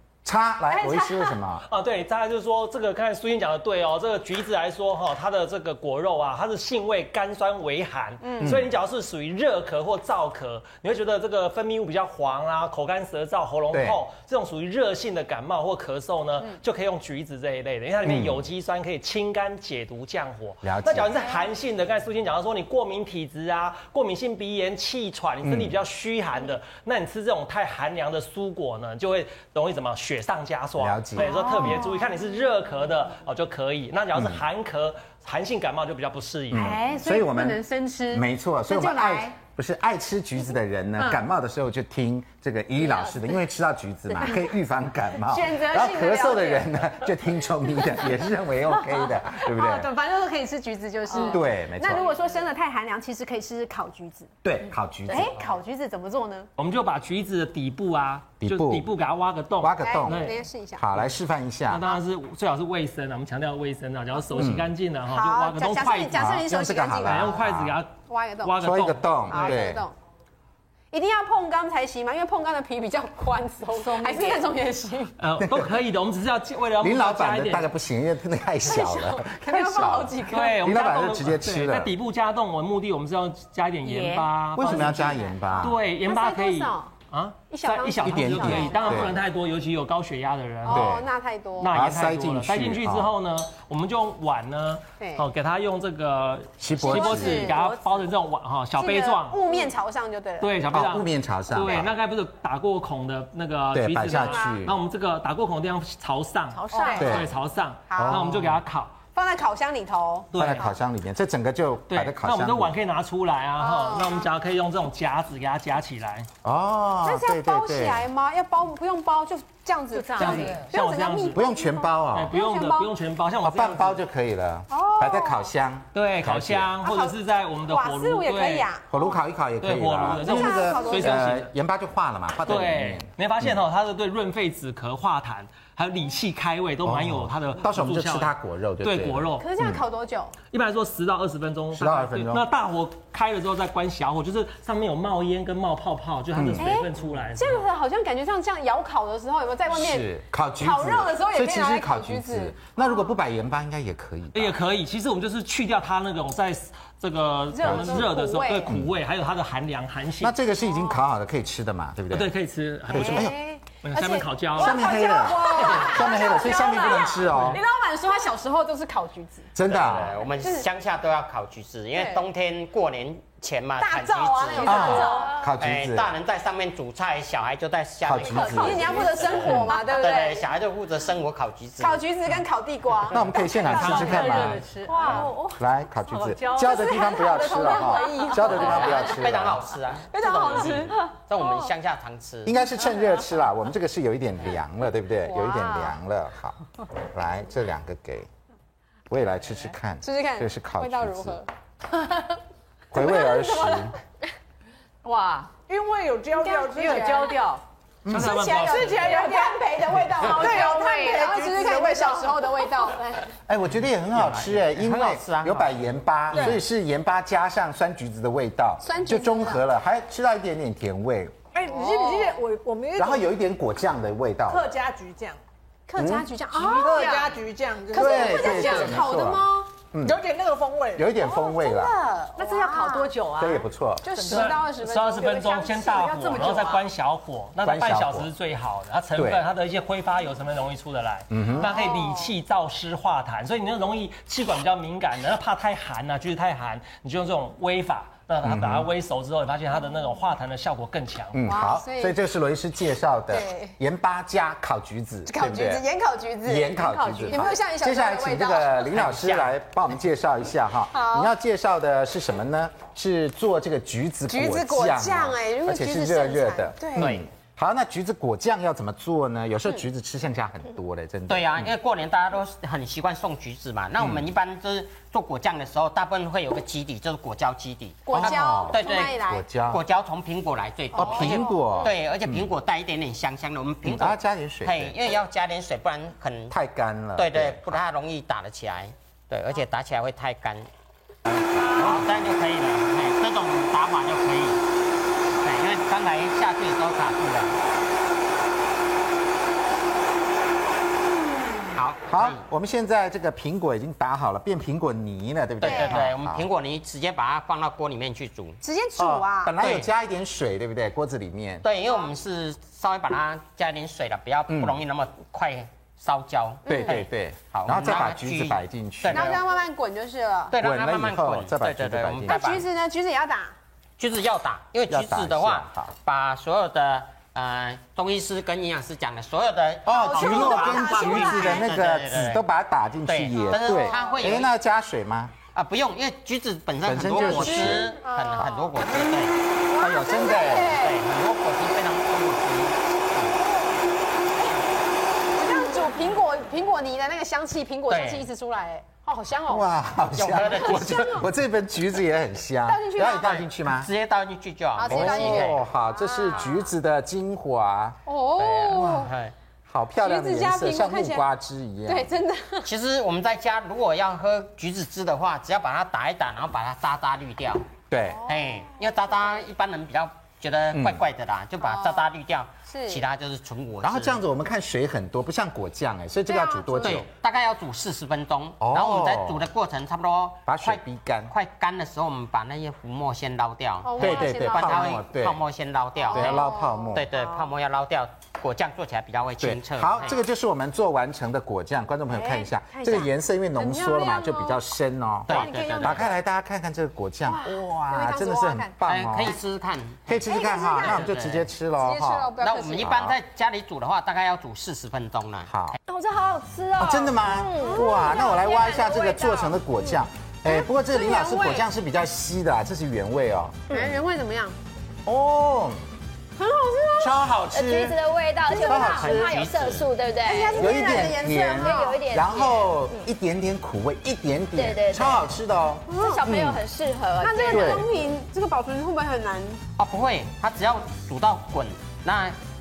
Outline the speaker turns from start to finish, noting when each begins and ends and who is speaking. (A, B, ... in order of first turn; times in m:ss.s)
0:00.2-0:01.6 A
0:00.7-0:01.4 B
0:01.7-0:36.8 C
0:08.2-0:08.6 B
0:08.4-0:08.7 A
0:13.7-0:14.0 A
0:18.0-0:18.4 A
0:20.6-0:21.2 A
0:25.4-0:25.8 A
0:30.8-0:31.9 A
0:31.2-0:32.0 B
0:31.4-0:31.7 D
0:34.2-0:34.4 A
0:36.5-0:49.9 A
0:36.5-0:39.3 B
0:42.8-0:43.3 B
0:44.2-0:44.5 B
0:45.3-0:46.8 B
0:47.8-0:48.1 B
0:48.7-0:54.3 B
0:51.1-0:51.4 D
0:51.2-0:52.1 A
0:54.4-0:55.3 A
0:55.1-0:56.5 B
0:56.6-1:00.4 C
0:58.4-0:58.9 A
0:59.6-1:01.9 A
0:59.8-1:00.9 B
1:01.7-1:06.4 C
1:04.3-1:04.7 A
1:05.1-1:07.4 B
1:06.1-1:07.8 A
1:07.0-1:09.6 C
1:08.1-1:08.6 B
1:08.6-1:09.9 A
1:09.3-1:10.0 B
1:10.9-1:15.2 B
1:13.7-1:14.5 D
1:15.2-1:17.7 C
1:15.4-1:15.8 A
1:16.8-1:21.9 A
1:18.6-1:20.7 B
1:20.2-1:31.0 C
1:23.8-1:25.3 D
1:24.6-1:25.8 A
1:24.7-1:25.1 B
1:26.0-1:27.0 B
1:27.5-1:29.2 B
1:28.0-1:29.2 A
1:30.6-1:31.8 B
1:30.7-1:31.1 A
1:31.6-1:39.5 C
1:31.7-1:33.1 A
1:35.0-1:35.3 B
1:36.6-1:37.6 A
1:36.8-1:37.6 B
1:37.1-1:38.1 D
1:38.8-1:40.7 B
1:40.4-1:49.0 C
1:40.7-1:41.9 A
1:43.7-1:44.8 A
1:44.1-1:44.7 B
1:46.5-1:47.1 D
1:46.7-1:47.2 B
1:47.0-1:47.3 A
1:47.9-1:48.2 B
1:48.0-1:48.6 A
1:49.1-1:50.3 B
1:50.3-1:50.7 C
1:50.4-1:52.7 A
1:51.9-1:56.3 C
1:53.6-1:54.3 B
1:56.4-1:58.1 A
1:57.0-2:02.9 B
1:59.9-2:00.7 D
2:00.2-2:01.4 C
2:01.3-2:02.4 A
2:02.1-2:04.0 C
2:03.4-2:06.8 A
2:04.7-2:05.5 B
2:05.9-2:08.7 C
2:06.8-2:09.2 B
2:08.9-2:13.6 A
2:09.6-2:11.5 C
2:10.2-2:11.4 B
2:12.4-2:19.8 C
2:16.8-2:19.8 A
2:19.4-2:20.4 B
2:20.5-2:27.6 C
2:21.7-2:22.5 A
2:26.4-2:26.7 A
2:26.6-2:30.1 B
2:29.7-2:34.6 A
2:30.6-2:33.1 B
2:34.3-2:40.4 C
2:37.5-2:38.7 B
2:37.6-2:38.2 A
2:38.7-2:38.9 A
2:40.2-2:42.3 A
2:40.7-2:41.0 B
2:42.1-2:46.0 C
2:42.9-2:43.4 A
2:42.9-2:49.5 B
2:44.6-2:47.6 A
2:49.6-2:50.2 A
2:49.7-3:02.1 E
2:50.2-2:50.7 B
2:52.0-2:52.2 B
2:53.8-2:55.4 B
2:54.5-2:55.0 F
2:54.6-2:56.1 A
2:58.0-2:59.8 A
2:58.2-3:00.5 B
3:01.8-3:05.3 B
3:03.1-3:04.6 C
3:03.1-3:09.6 A
3:03.5-3:08.8 D
3:06.8-3:09.2 B
3:08.6-3:12.6 E
3:10.1-3:11.7 B
3:12.5-3:16.6 A
3:15.3-3:15.9 B
3:17.1-3:18.3 A
3:19.1-3:21.4 A
3:20.0-3:21.5 B
3:22.9-3:24.0 A
3:22.9-3:24.0 B
3:25.0-3:25.5 D
3:25.7-3:27.4 F
3:26.4-3:27.6 D
3:26.5-3:27.3 B
3:28.0-3:28.5 A
3:28.1-3:29.3 C
3:28.2-3:33.3 B
3:28.3-3:29.6 F
3:30.2-3:32.3 D
3:30.2-3:32.5 F
3:33.5-3:41.4 A
3:34.1-3:35.8 E
3:36.3-3:36.6 F
3:38.8-3:39.6 B
3:41.5-3:43.3 F
3:41.7-3:42.3 B
3:43.0-3:44.7 A
3:44.5-3:45.4 F
3:45.9-3:47.2 B
3:46.0-3:46.3 A
3:46.0-3:49.0 F
3:46.6-3:47.4 D
3:47.9-3:49.7 B
3:47.9-3:50.2 A
3:50.0-3:51.2 F
3:51.0-3:51.9 A
3:51.2-3:53.1 B
3:51.8-3:52.1 F
3:52.4-3:54.6 D
3:53.4-3:54.1 A
3:54.0-3:56.8 B
3:54.3-4:11.5 C
3:56.3-3:56.8 D
3:57.6-3:58.3 A
3:59.2-3:59.4 A
4:01.3-4:01.8 A
4:01.6-4:02.3 B
4:08.4-4:08.9 A
4:11.3-4:15.9 A
4:11.5-4:12.2 B
4:13.3-4:13.8 B
4:15.3-4:19.1 B
4:16.4-4:31.7 A
4:16.9-4:17.5 D
4:19.0-4:19.5 E
4:20.9-4:21.3 B
4:24.3-4:27.1 B
4:27.0-4:27.3 E
4:31.3-4:46.6 E
4:34.0-4:34.3 A
4:38.1-4:39.4 B
4:38.1-4:39.8 A
4:40.9-4:41.6 B
4:41.0-4:42.5 A
4:43.8-4:45.0 A
4:46.5-4:47.8 A
4:47.2-4:50.7 E
4:51.3-4:52.2 A
4:51.7-4:54.6 E
4:55.4-4:57.6 E
5:01.7-5:02.4 E
5:02.1-5:06.5 A
5:05.6-5:08.6 E
5:05.6-5:06.0 B
5:08.6-5:09.5 B
5:09.0-5:11.7 A
5:09.6-5:09.9 E
5:11.6-5:17.1 E
5:14.5-5:14.8 A
5:16.7-5:17.0 B
5:16.7-5:19.4 A
5:17.6-5:19.4 E
5:19.1-5:20.5 B
5:20.5-5:22.6 E
5:20.6-5:22.4 A
5:22.3-5:23.5 B
5:24.0-5:32.4 E
5:24.9-5:26.0 A
5:29.9-5:35.4 A
5:29.9-5:31.7 B
5:33.1-5:34.5 E
5:33.4-5:34.3 B
5:35.5-5:39.4 E
5:36.8-5:38.0 A
5:37.2-5:38.7 B
5:39.7-5:41.0 B
5:39.8-5:40.8 A
5:40.0-5:43.4 E
5:45.4-5:49.7 B
5:47.9-5:48.3 E
5:49.5-5:53.9 A
5:50.2-5:51.1 E
5:50.4-5:51.3 B
5:52.7-5:53.4 B
5:53.2-5:55.6 E
5:54.8-5:56.7 B
5:54.9-5:58.0 A
5:58.1-5:59.1 B
5:58.4-5:59.4 E
5:59.7-6:02.1 A
6:00.0-6:01.2 B
6:01.9-6:02.7 B
6:02.6-6:07.7 E
6:07.9-6:08.2 A
6:08.0-6:08.9 B
6:08.3-6:14.2 E
6:10.7-6:11.0 A
6:11.6-6:12.1 B
6:12.7-6:13.0 B
6:13.8-6:17.1 A
6:16.3-6:17.0 B
6:16.8-6:30.2 E
6:18.6-6:19.5 A
6:20.5-6:21.3 A
6:23.8-6:25.0 B
6:24.0-6:25.4 A
6:26.0-6:27.5 B
6:26.1-6:27.1 A
6:29.4-6:39.4 A
6:32.1-6:34.6 B
6:35.3-6:36.1 E
6:35.3-6:36.2 B
6:37.3-6:38.8 B
6:38.9-6:41.5 E
6:40.1-6:43.2 A
6:40.2-6:41.1 B
6:41.8-6:43.0 B
6:42.4-6:45.5 E
6:45.5-6:45.8 A
6:45.9-6:48.0 G
6:46.8-6:53.9 A
6:47.6-6:51.7 B
6:53.7-6:54.6 B
6:55.0-6:55.8 A
6:56.4-6:57.2 B
6:57.0-6:58.0 A
6:57.5-7:03.1 G
6:58.5-6:59.0 B
6:58.6-6:59.4 A
6:59.0-6:59.9 E
7:00.2-7:02.0 B
7:00.6-7:06.6 A
7:04.6-7:05.2 G
7:05.9-7:06.2 B
7:05.9-7:07.8 G
7:07.2-7:09.6 B
7:07.5-7:07.9 A
7:09.8-7:12.4 E